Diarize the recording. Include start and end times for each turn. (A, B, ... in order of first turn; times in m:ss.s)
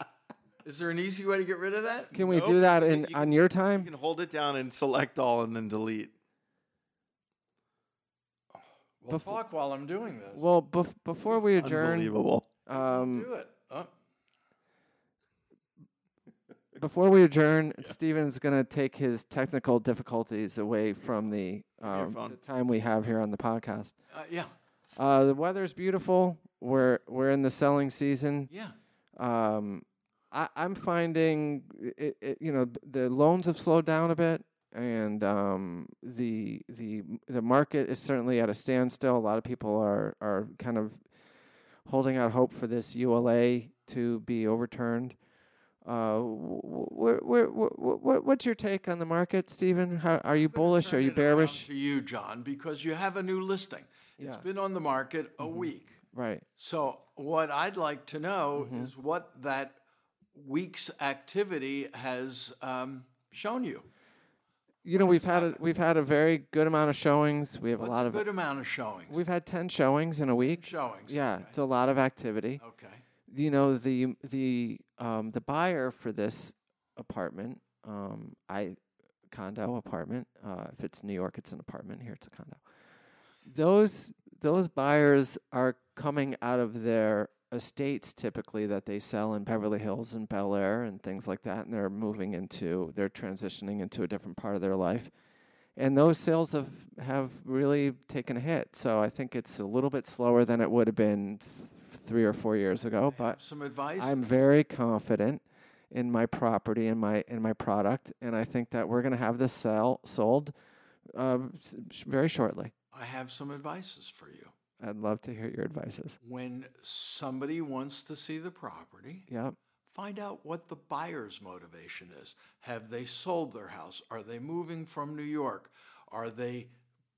0:00.6-0:02.3 A
0:02.1-0:03.9 B
0:02.3-0:06.1 C
0:09.0-0:10.5 A
0:09.1-0:09.4 B
0:10.3-0:12.1 B
0:11.3-0:11.7 A
0:11.6-0:12.5 C
0:12.7-0:13.3 B
0:12.7-0:13.9 A
0:16.8-0:23.9 B
0:21.9-0:22.4 C
0:24.1-0:24.5 A
0:25.0-0:28.5 B
0:29.2-0:41.0 B
0:41.9-0:45.2 B
0:45.8-0:51.7 B
0:50.5-0:56.0 A
0:54.2-0:54.4 B
0:55.4-0:56.4 B
0:56.6-0:59.8 A
0:58.6-0:58.9 B
1:00.3-1:03.9 A
1:04.8-1:08.2 B
1:04.9-1:05.6 A
1:07.8-1:09.2 A
1:09.1-1:12.6 B
1:10.5-1:11.5 A
1:12.6-1:13.0 A
1:13.3-1:18.8 B
1:19.3-1:22.6 B
1:23.5-1:35.1 B
1:35.8-1:43.4 B
1:43.0-1:44.3 A
1:44.0-1:50.5 B
1:51.1-1:52.7 B
1:52.9-1:54.5 A
1:54.8-1:56.2 B
1:56.2-1:59.3 A
1:59.3-1:59.6 B
1:59.9-2:06.7 A